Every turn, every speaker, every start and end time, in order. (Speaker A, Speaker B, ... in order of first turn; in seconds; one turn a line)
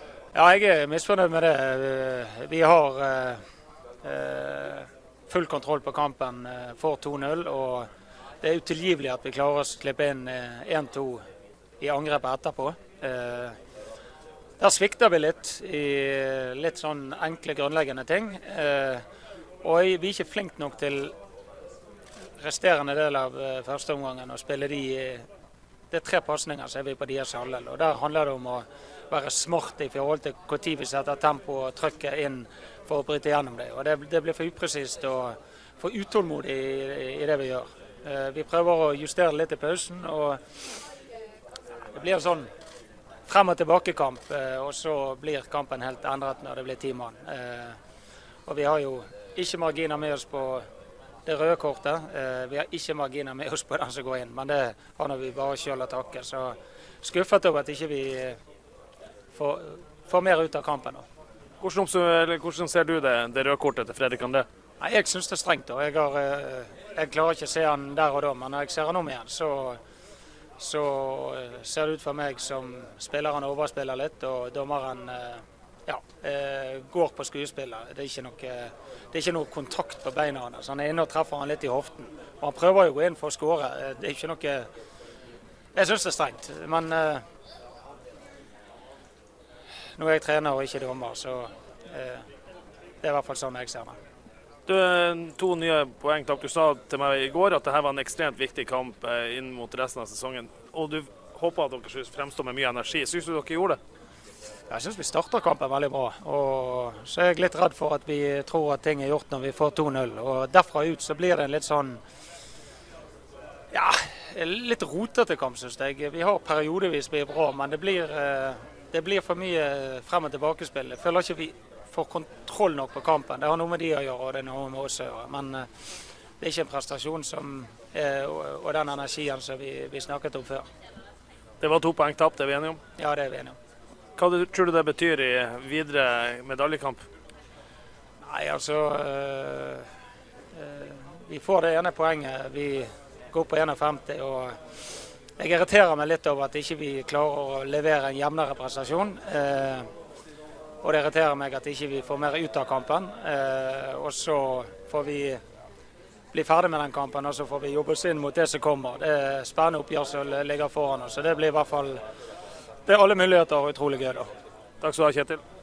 Speaker A: 0.3-3.4
Speaker A: 4.0-7.9
Speaker A: 8.4-11.2
Speaker A: 11.8-13.6
Speaker A: 14.6-19.0
Speaker A: 19.6-21.1
Speaker A: 22.4-25.3
Speaker A: 25.9-40.4
Speaker A: 41.9-42.5
Speaker A: 43.3-47.8
Speaker A: 48.5-50.6
Speaker A: 51.3-58.4
Speaker A: 59.3-61.0
Speaker B: 61.6-64.5
Speaker A: 64.8-69.8
Speaker A: 70.6-84.7
Speaker A: 85.7-87.2
Speaker A: 90.0-92.2
Speaker A: 93.0-94.0
Speaker B: 94.7-103.8
Speaker A: 104.7-112.0
Speaker A: 113.7-125.7
Speaker A: 126.4-130.7
Speaker B: 131.6-132.8
Speaker A: 133.0-133.6
Speaker B: 134.2-137.1
Speaker A: 138.2-139.9
Speaker A: 140.5-144.6
Speaker A: 145.4-149.9
Speaker A: 150.8-155.4
Speaker A: 156.3-162.0
Speaker A: 162.9-164.3
Speaker B: 164.8-165.4